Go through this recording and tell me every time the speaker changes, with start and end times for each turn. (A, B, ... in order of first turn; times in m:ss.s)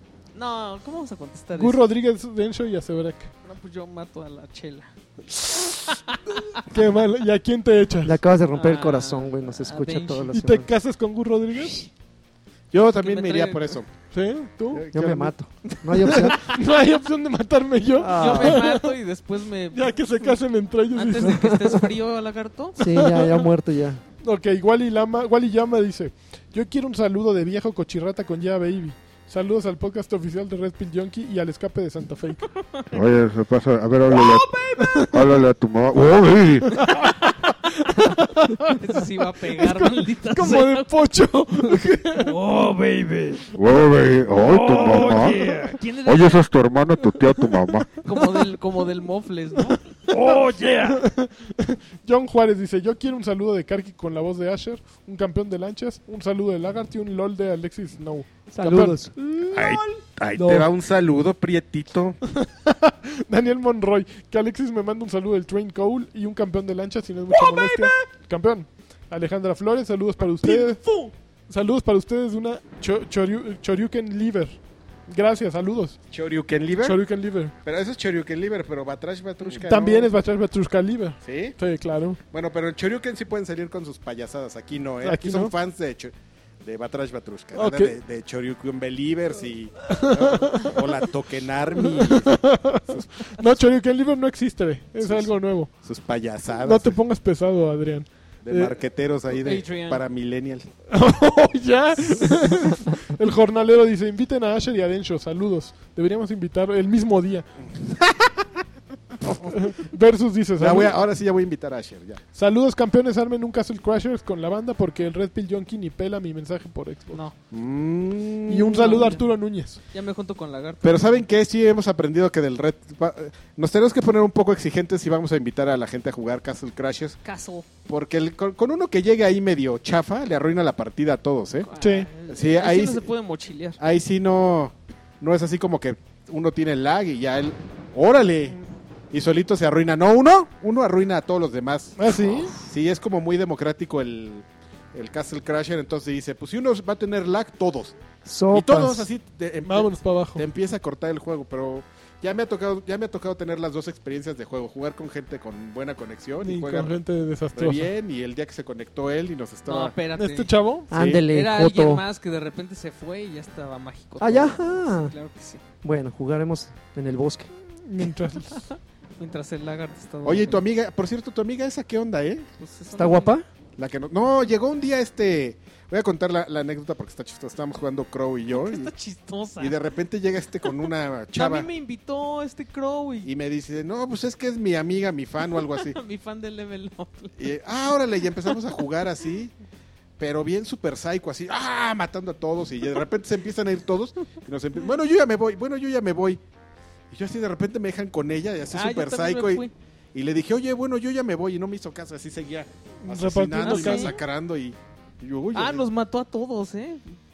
0:00.3-0:01.9 A
0:01.5-0:03.3 B
0:03.4-0:04.9 A
0:05.9-0:06.6 A
0:06.6-0:08.2 B
0:08.0-0:10.7 C
0:08.5-0:10.3 A
0:10.3-0:11.9 B
0:12.7-0:13.9 D
0:13.0-0:13.8 A
0:14.1-0:14.8 B
0:14.7-0:15.3 D
0:14.9-0:16.4 C
0:15.7-0:16.5 A
0:16.0-0:18.9 B
0:18.0-0:18.7 C
0:18.1-0:20.4 A
0:19.7-0:21.5 B
0:20.9-0:22.8 A
0:21.2-0:21.8 C
0:22.8-0:24.0 C
0:22.9-0:23.4 B
0:24.2-0:32.5 B
0:32.9-0:36.8 E
0:34.1-0:35.4 A
0:36.8-0:38.8 B
0:37.9-0:40.9 A
0:39.6-0:42.4 B
0:41.7-0:43.5 A
0:43.5-0:47.9 E
0:44.4-0:46.5 A
0:44.7-0:45.8 B
0:48.0-0:51.0 A
0:50.1-0:59.6 B
0:58.5-0:59.2 C
0:59.5-1:02.2 D
1:00.4-1:00.6 B
1:02.4-1:10.8 B
1:07.3-1:08.0 A
1:07.4-1:07.7 C
1:10.3-1:11.1 A
1:11.5-1:16.0 B
1:16.1-1:17.0 D
1:16.8-1:17.5 B
1:17.6-1:20.1 D
1:19.5-1:22.2 B
1:21.2-1:21.6 D
1:22.3-1:26.1 D
1:25.0-1:25.5 B
1:26.6-1:33.5 D
1:27.5-1:28.0 B
1:29.9-1:30.8 B
1:31.8-1:35.7 B
1:35.0-1:37.0 D
1:36.6-1:38.8 B
1:38.4-1:40.7 D
1:39.3-1:40.0 A
1:40.9-1:47.5 B
1:47.8-1:48.4 D
1:49.4-1:50.9 B
1:50.6-1:52.2 D
1:52.3-1:57.2 B
1:57.5-1:59.1 D
1:58.5-1:59.8 B
1:58.8-1:59.2 A
1:59.9-2:01.2 A
2:00.8-2:07.2 D
2:07.2-2:07.7 A
2:07.8-2:11.7 D
2:11.6-2:13.8 A
2:11.8-2:12.1 B
2:12.2-2:13.1 D
2:13.8-2:18.6 D
2:19.1-2:28.0 D
2:22.0-2:22.5 B
2:28.2-2:29.1 C
2:28.5-2:37.0 D
2:29.6-2:30.4 B
2:36.4-2:37.9 B
2:37.5-2:39.9 D
2:39.6-2:40.5 A
2:40.1-2:40.9 B
2:40.9-2:42.0 C
2:40.9-2:41.2 D
2:41.3-2:45.6 A
2:44.2-2:45.1 C
2:45.8-2:47.5 C
2:47.8-2:48.7 B
2:48.5-2:50.6 A
2:50.2-2:52.4 D
2:52.6-2:53.3 A
2:53.0-2:53.4 C
2:53.8-2:58.9 D
2:58.5-2:59.8 A
2:59.6-3:01.7 D
3:01.3-3:03.3 A
3:03.2-3:06.0 D
3:05.7-3:07.5 A
3:07.4-3:09.5 D
3:10.2-3:16.4 D
3:17.1-3:25.8 D
3:18.7-3:19.7 A
3:23.0-3:24.1 B
3:23.6-3:24.2 A
3:25.5-3:27.2 A